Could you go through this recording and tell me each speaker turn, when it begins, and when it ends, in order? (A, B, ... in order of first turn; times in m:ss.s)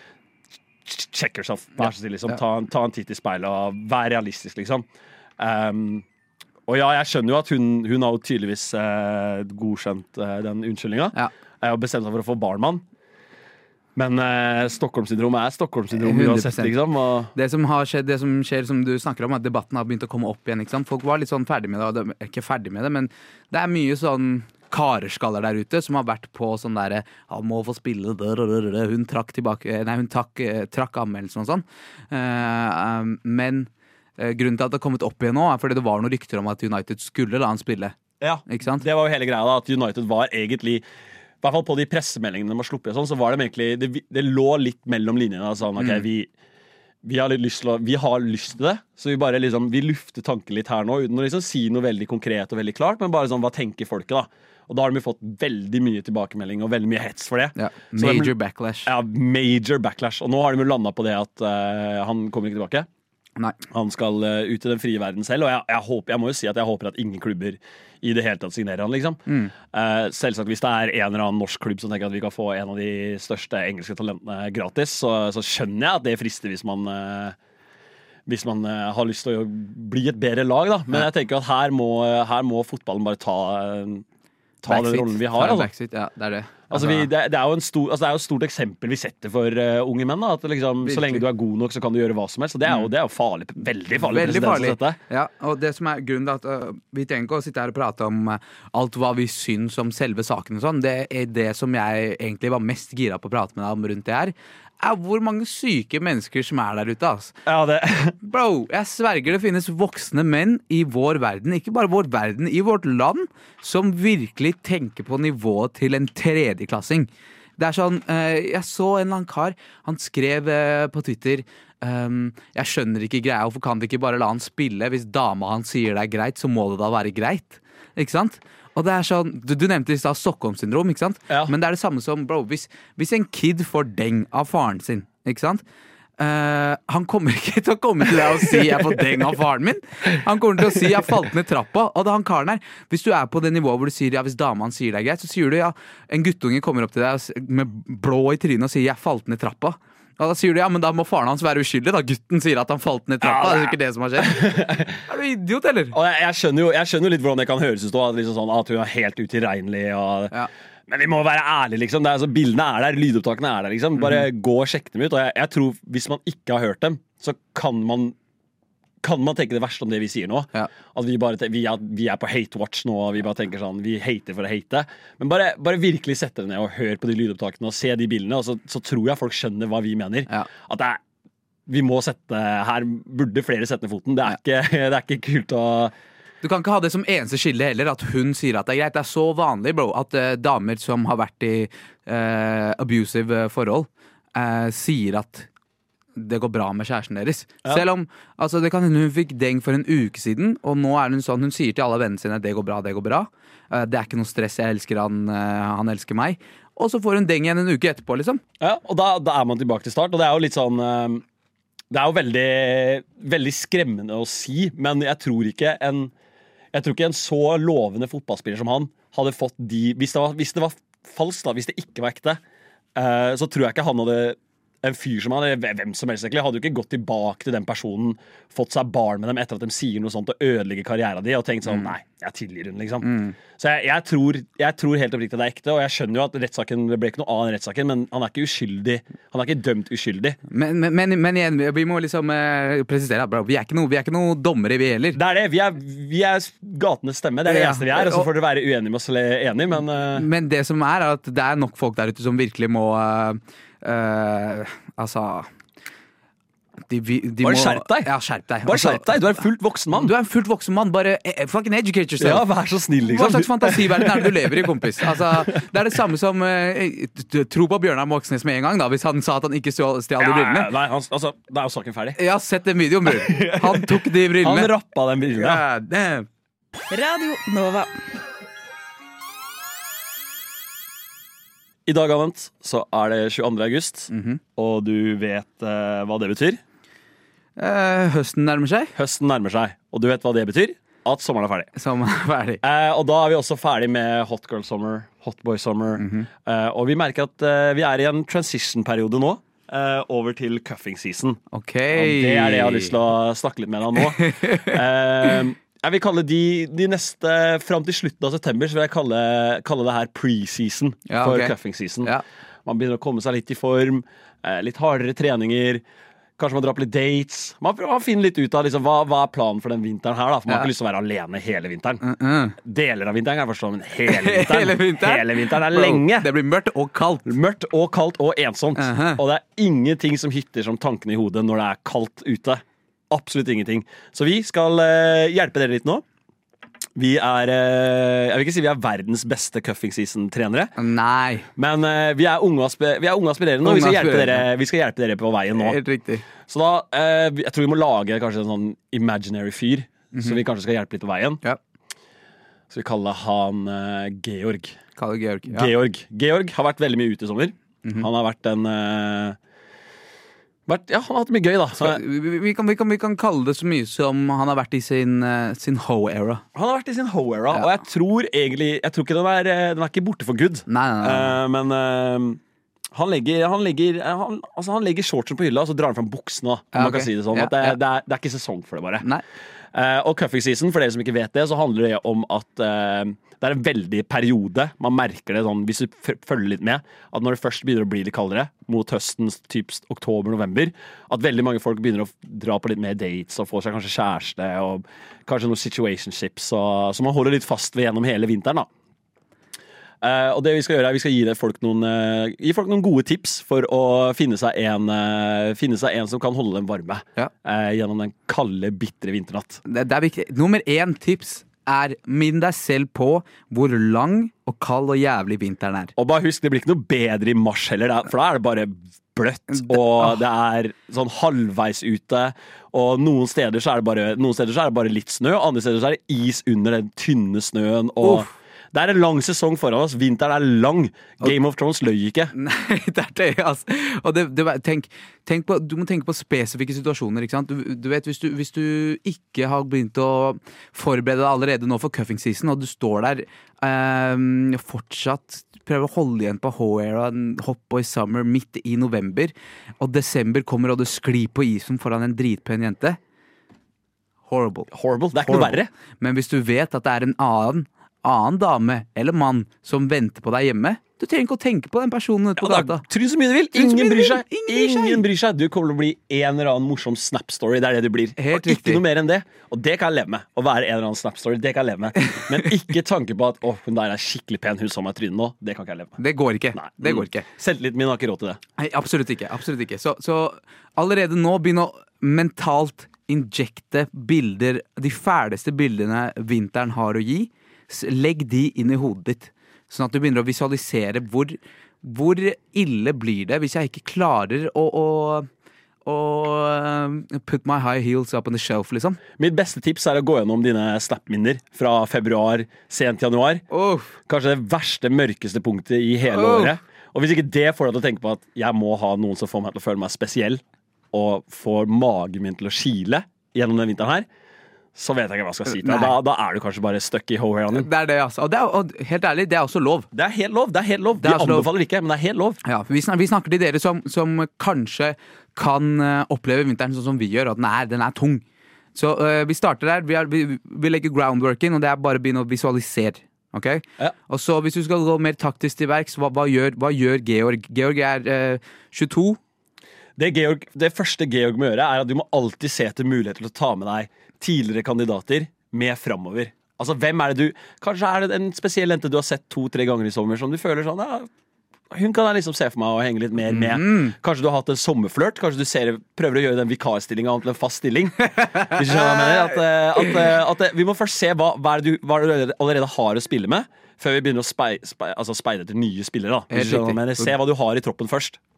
0:00.8-0:04.8 A
0:05.4-0:06.0 A
0:06.7-0:12.8 A
0:14.0-0:17.3 A
0:15.9-0:16.7 B
0:17.3-0:38.0 B
0:38.2-0:40.8 A
0:38.5-0:38.8 B
0:41.4-0:46.3 A
0:45.8-0:46.0 B
0:47.0-0:58.3 A
0:57.6-0:58.9 B
0:58.8-1:02.9 A
1:03.7-1:17.4 A
1:09.3-1:09.5 B
1:18.2-1:24.0 A
1:24.6-1:25.7 A
1:24.6-1:27.1 B
1:26.7-1:35.0 A
1:30.8-1:31.2 B
1:34.0-1:47.3 B
1:47.4-1:48.2 A
1:48.2-2:15.6 B
2:16.2-2:35.9 B
2:18.5-2:18.8 A
2:33.2-2:35.0 A
2:35.9-2:40.3 A
2:40.9-2:48.2 A
2:49.0-3:01.0 A
3:01.7-3:05.9 A
3:06.4-3:15.5 B
3:16.2-3:28.4 B
3:28.6-3:31.2 A
3:31.9-3:36.1 A
3:36.7-3:42.4 A
3:42.9-4:00.4 A
3:53.0-3:53.4 B
4:00.5-4:05.2 B
4:05.1-4:10.2 A
4:07.4-4:08.3 B
4:10.1-4:15.5 B
4:16.9-4:19.1 B
4:17.4-4:18.1 A
4:18.6-4:20.1 A
4:19.9-4:22.4 B
4:22.2-4:25.6 A
4:23.0-4:30.7 B
4:30.2-4:32.2 A
4:32.2-4:34.7 B
4:33.0-4:35.6 A
4:35.4-4:36.3 B
4:36.9-4:37.9 B
4:41.8-4:46.6 A
4:44.1-4:44.4 B
4:47.6-4:48.9 B
4:49.0-4:51.7 A
4:51.8-4:52.6 B
4:52.6-5:01.4 A
4:56.0-4:56.3 B
5:01.5-5:03.0 B
5:01.9-5:12.1 A
5:04.0-5:04.8 B
5:11.1-5:12.2 B
5:12.6-5:15.8 A
5:16.4-5:22.0 A
5:22.0-5:22.6 B
5:22.6-5:26.3 A
5:24.0-5:27.3 B
5:27.2-5:36.0 A
5:28.8-5:29.2 B
5:37.0-5:40.7 A
5:40.8-5:41.5 B
5:41.6-5:45.8 A
5:43.6-5:44.5 B
5:45.6-5:46.2 B
5:46.4-5:51.4 A
5:50.1-5:50.4 B
5:52.7-5:54.8 A
5:55.0-5:55.7 B
5:55.5-5:59.4 A
6:00.7-6:02.0 A
6:01.8-6:06.4 B
6:06.5-6:12.4 A
6:10.7-6:11.4 B
6:12.9-6:19.0 A
6:16.7-6:17.8 B
6:19.7-6:38.7 A
6:40.0-6:49.6 A
6:49.6-6:55.9 B
6:56.0-7:12.3 A
6:59.5-7:00.2 B
7:08.0-7:08.3 B
7:12.3-7:33.0 B
7:34.3-7:34.7 B
7:34.7-7:35.7 A
7:35.2-7:42.8 B
7:42.4-7:56.0 A
7:43.5-7:45.0 B
7:48.2-7:48.8 B
7:56.0-7:57.2 B
7:56.5-7:58.4 A
7:58.6-8:15.3 B
8:15.8-8:19.0 B
8:19.2-8:23.4 A
8:23.5-8:23.9 B
8:24.0-8:34.0 A
8:26.1-8:26.5 B
8:34.7-8:37.7 A
8:35.5-8:36.0 B
8:37.5-8:39.9 B
8:39.9-8:42.4 A
8:41.0-8:41.5 B
8:42.4-8:48.2 B
8:48.7-8:59.2 B
9:00.0-9:11.1 A
9:11.7-9:28.2 A
9:13.3-9:13.9 B
9:18.3-9:19.0 B
9:26.3-9:27.1 B